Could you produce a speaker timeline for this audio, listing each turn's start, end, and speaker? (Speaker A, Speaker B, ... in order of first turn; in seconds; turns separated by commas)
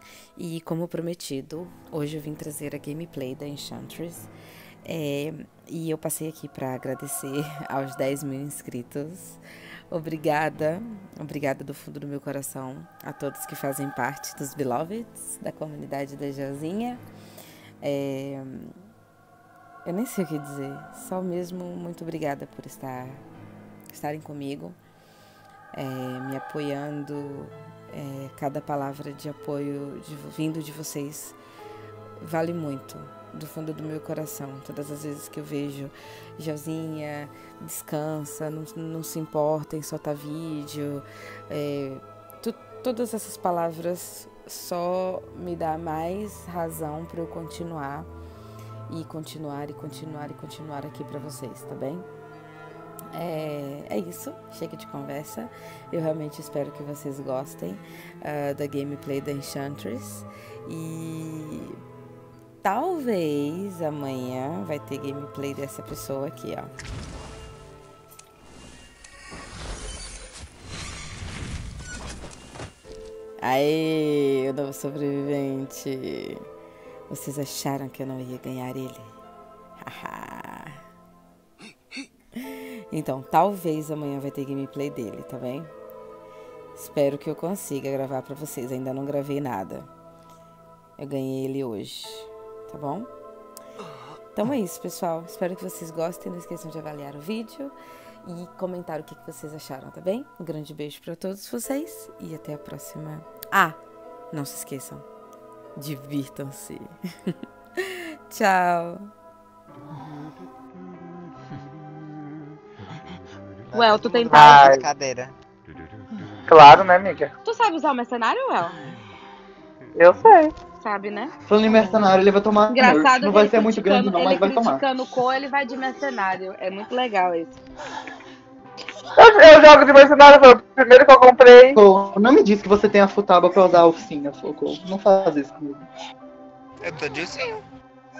Speaker A: 0.3-4.3, Speaker A: 4.8-9.4, Speaker A: 9.9-17.0, Speaker A: 17.8-18.8, Speaker A: 19.8-23.2, Speaker A: 23.9-24.8, Speaker A: 25.7-31.4, Speaker A: 32.2-48.1, Speaker A: 48.9-52.1, Speaker A: 53.1-61.8, Speaker A: 62.6-66.7, Speaker A: 73.4-76.4, Speaker A: 77.1-79.1, Speaker A: 79.8-80.8, Speaker A: 82.9-85.7, Speaker A: 86.7-89.9, Speaker A: 91.0-93.1, Speaker A: 94.3-103.8, Speaker A: 104.3-105.0, Speaker A: 105.8-107.3, Speaker A: 108.3-109.1, Speaker B: 113.7-115.3, Speaker C: 113.7-114.7, Speaker D: 114.3-114.8, Speaker D: 116.5-117.3, Speaker C: 117.4-118.8, Speaker D: 120.0-120.5, Speaker C: 120.8-121.3, Speaker E: 121.5-124.8, Speaker C: 122.7-127.6, Speaker D: 129.2-131.8, Speaker E: 131.7-135.8, Speaker B: 136.8-137.6